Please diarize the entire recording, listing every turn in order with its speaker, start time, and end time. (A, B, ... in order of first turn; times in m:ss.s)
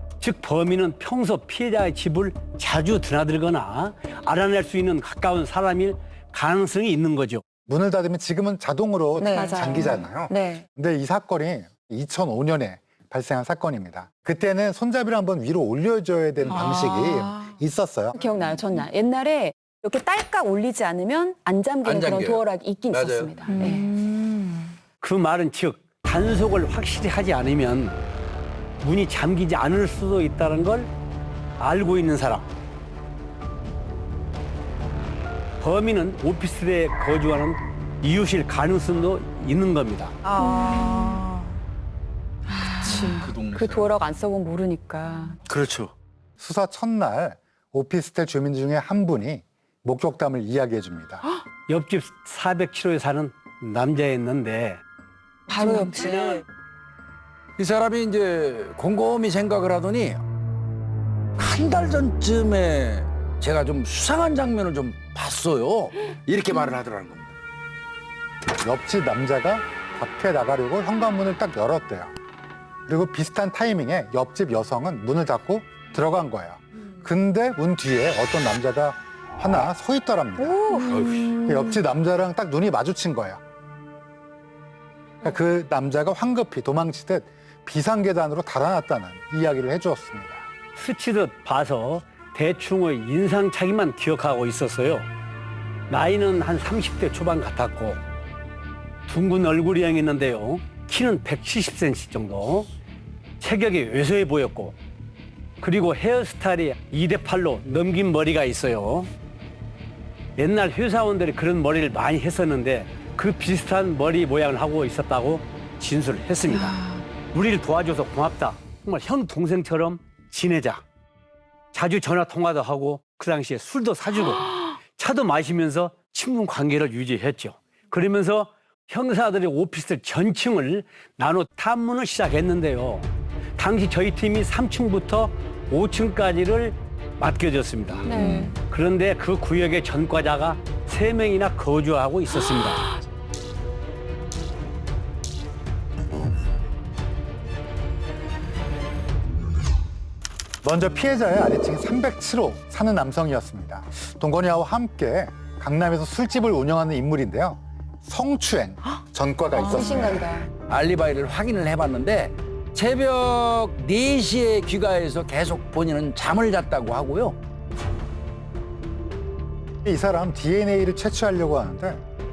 0:00.2-0:07.4 A
0:07.7-0:18.2 B
0:09.2-0:10.6 C
0:09.3-0:10.0 D
0:16.5-0:17.5 C
0:18.2-0:23.9 D
0:21.8-0:23.5 E
0:23.5-0:24.8 C
0:25.0-0:28.0 A
0:28.8-0:30.9 A
0:31.6-0:32.5 A
0:35.6-0:40.2 A
0:40.2-0:41.5 C
0:40.4-0:41.2 D
0:42.6-0:43.3 C
0:42.8-0:45.4 D
0:42.9-0:43.9 E
0:45.5-0:45.9 E
0:46.4-0:51.2 B
0:51.7-0:54.8 A
0:55.5-0:56.4 C
0:55.6-0:56.1 D
0:57.6-1:00.2 E
1:01.4-1:07.3 E
1:08.6-1:12.1 B
1:12.9-1:20.8 B
1:20.4-1:21.5 C
1:20.6-1:21.3 D
1:20.9-1:21.3 E
1:21.4-1:23.4 B
1:25.2-1:30.5 B
1:30.8-1:35.1 A
1:35.9-1:38.0 A
1:39.1-1:42.7 A
1:43.4-1:44.8 A
1:45.6-1:49.1 A
1:50.4-1:56.8 A
1:56.5-1:57.1 C
1:57.3-2:00.8 A
2:01.7-2:18.1 A
2:18.1-2:18.5 C
2:18.1-2:18.5 D
2:18.6-2:22.9 A
2:30.6-2:40.3 B
2:39.5-2:40.5 C
2:39.6-2:40.4 D
2:40.7-2:47.4 E
2:49.8-2:52.0 B